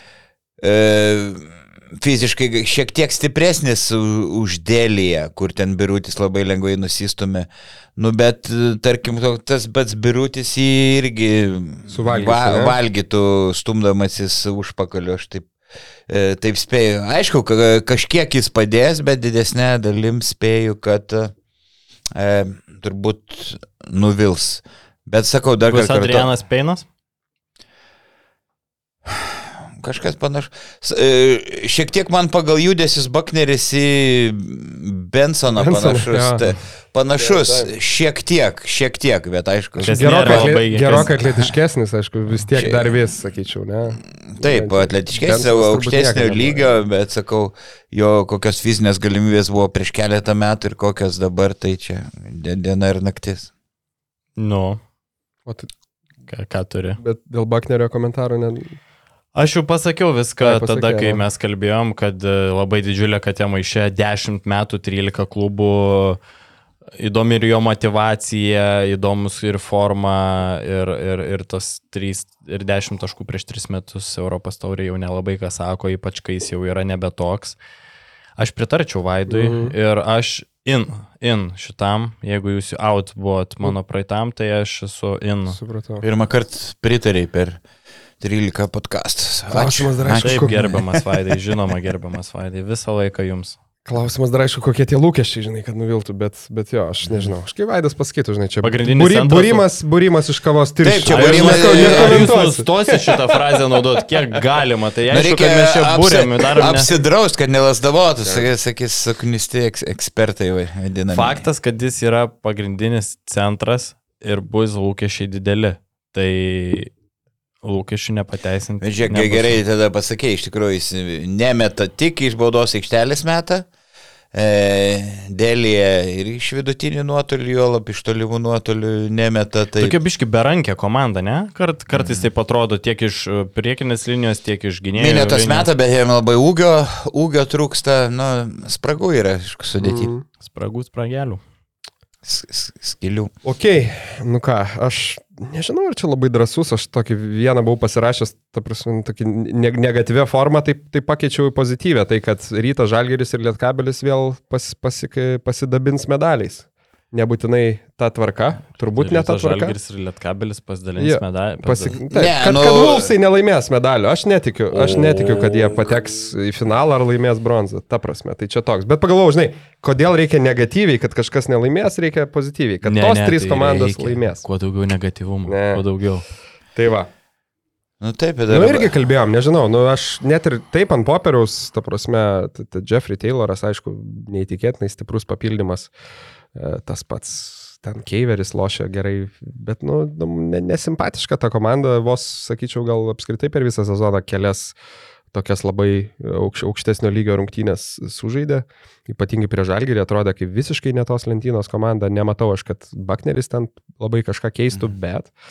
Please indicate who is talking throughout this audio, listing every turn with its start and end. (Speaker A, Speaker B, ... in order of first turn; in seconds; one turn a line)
Speaker A: 0.6-15.5
Speaker B: 11.9-12.8
Speaker A: 16.1-21.3
Speaker A: 22.1-26.3
Speaker C: 25.7-26.8
Speaker A: 29.1-41.5
Speaker B: 35.5-36.4
Speaker B: 37.2-37.7
Speaker C: 39.8-41.1
Speaker B: 39.8-46.6
Speaker A: 42.5-42.9
Speaker A: 44.3-53.5
Speaker C: 54.4-54.8
Speaker C: 56.3-57.0
Speaker B: 57.0-58.7
Speaker C: 59.3-66.2
Speaker B: 60.4-61.2
Speaker C: 67.0-77.6
Speaker C: 78.4-85.6
Speaker B: 79.3-79.7
Speaker B: 85.5-86.0
Speaker A: 86.0-87.6
Speaker A: 88.2-91.0
Speaker B: 89.5-90.6
Speaker C: 90.2-93.6
Speaker B: 93.8-103.3
Speaker C: 98.6-99.6
Speaker A: 100.8-102.3
Speaker C: 101.1-106.9
Speaker A: 105.1-111.4
Speaker C: 111.1-116.9
Speaker C: 117.6-119.6
Speaker A: 118.8-123.7
Speaker A: 124.3-129.9
Speaker C: 129.8-135.7
Speaker A: 131.9-132.3
Speaker A: 135.0-140.1
Speaker B: 139.8-140.2
Speaker C: 140.4-141.4
Speaker A: 142.2-143.3
Speaker B: 143.4-159.8
Speaker C: 158.9-162.0
Speaker B: 161.0-174.4
Speaker A: 161.9-163.1
Speaker C: 164.8-165.4
Speaker C: 172.8-176.2
Speaker B: 175.5-175.8
Speaker B: 176.7-177.1
Speaker A: 178.0-178.9
Speaker B: 178.5-185.9
Speaker B: 186.5-194.7
Speaker B: 195.3-205.3